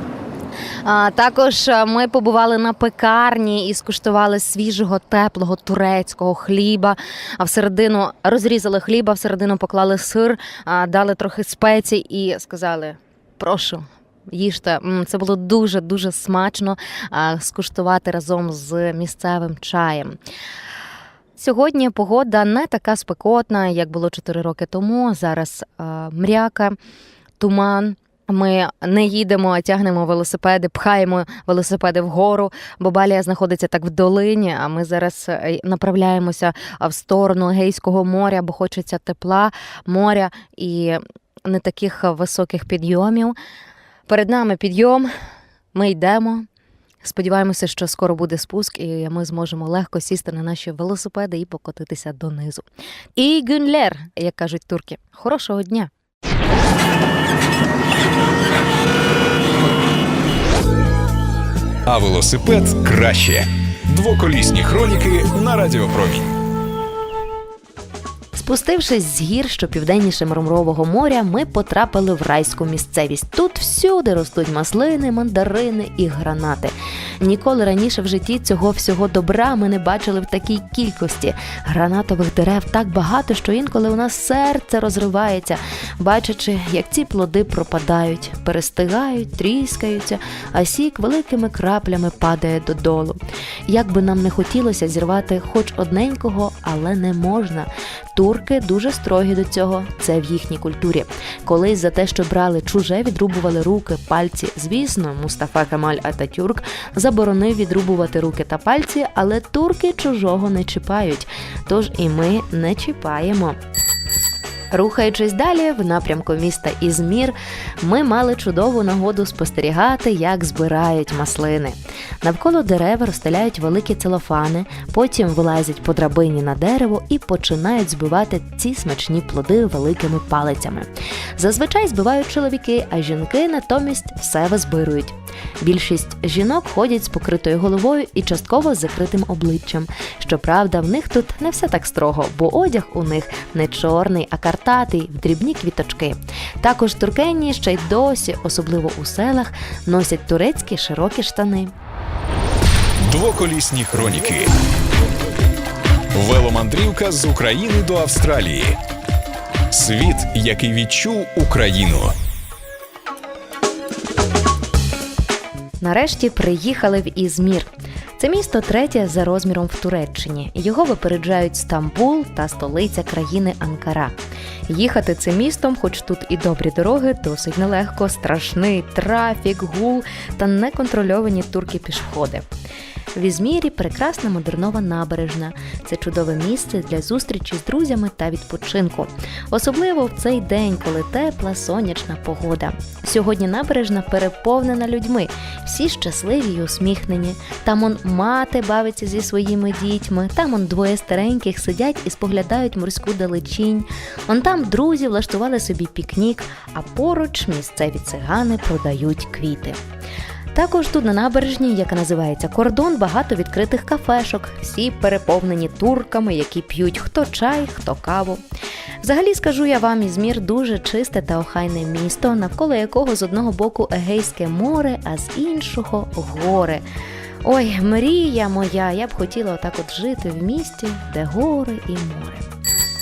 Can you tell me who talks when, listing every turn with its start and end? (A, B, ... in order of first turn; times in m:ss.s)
0:00.8-0:20.2 A
0:21.4-0:26.8 A
0:27.4-0:43.3 A
0:44.1-0:45.1 A
0:45.7-0:46.4 A
0:47.0-0:51.2 A
0:48.4-0:52.6 B
0:52.1-0:52.5 A
0:53.2-0:53.6 B
0:53.2-0:55.9 A
1:01.8-1:06.4 C
1:08.3-1:53.6 B
1:54.7-2:31.7 B
2:33.0-2:34.5 C
2:36.1-2:38.8 C
2:39.7-2:42.1 C
2:45.8-2:54.1 B
2:54.7-3:02.4 B
3:03.1-3:29.8 B
3:30.5-3:38.4 B
3:39.0-3:46.8 B
3:47.4-3:52.4 B